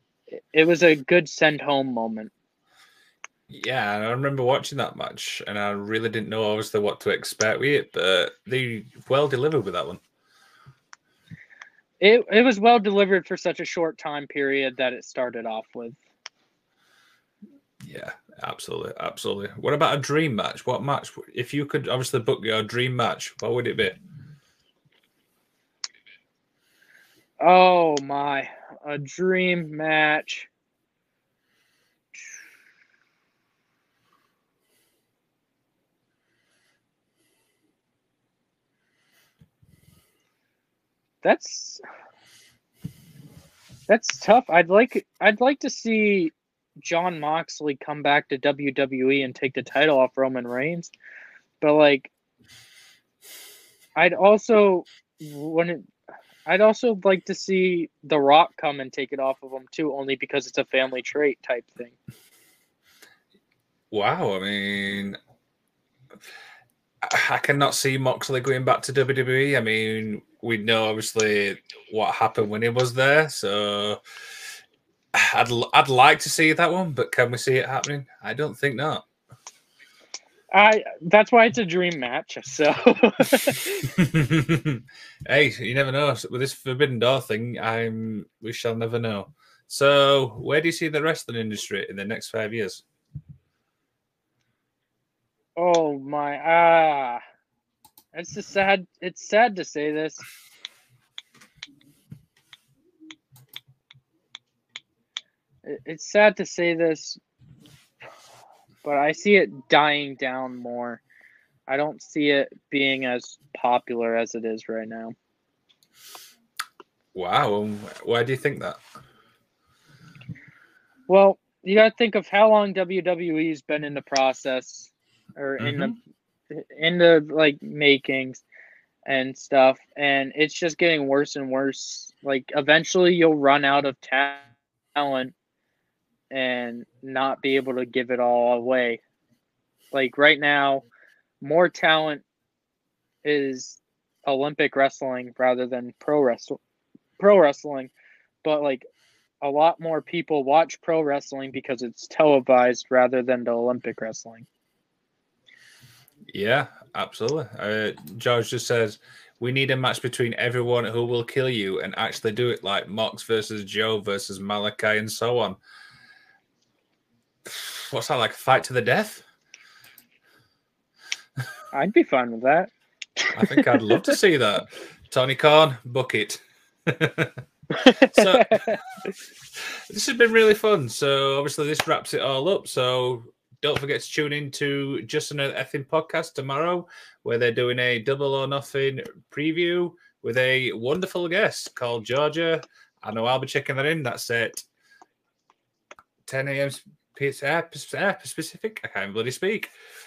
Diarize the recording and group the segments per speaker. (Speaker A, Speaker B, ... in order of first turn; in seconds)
Speaker A: 0.5-2.3, 12.0-16.0, 27.4-30.5, 41.2-41.8, 43.9-50.9, 51.6-52.1, 54.0-55.9, 56.5-62.0, 80.5-83.9, 95.6-97.2, 98.1-100.2, 105.6-107.2, 108.8-111.0, 111.7-115.1, 121.1-125.9, 126.5-128.4, 129.1-134.4, 134.9-135.3, 136.3-139.0, 139.9-140.8, 141.4-142.2, 143.2-146.6, 147.2-147.9, 148.4-148.8, 149.4-154.4, 171.7-174.1, 177.8-178.8
Speaker B: 3.5-10.0, 17.8-24.0, 63.9-65.2, 67.0-74.0, 75.1-79.0, 83.9-92.8, 117.1-118.8, 125.6-125.9, 156.3-165.6, 167.4-169.2, 173.3-177.4, 178.0-178.8, 179.5-194.6, 196.2-199.7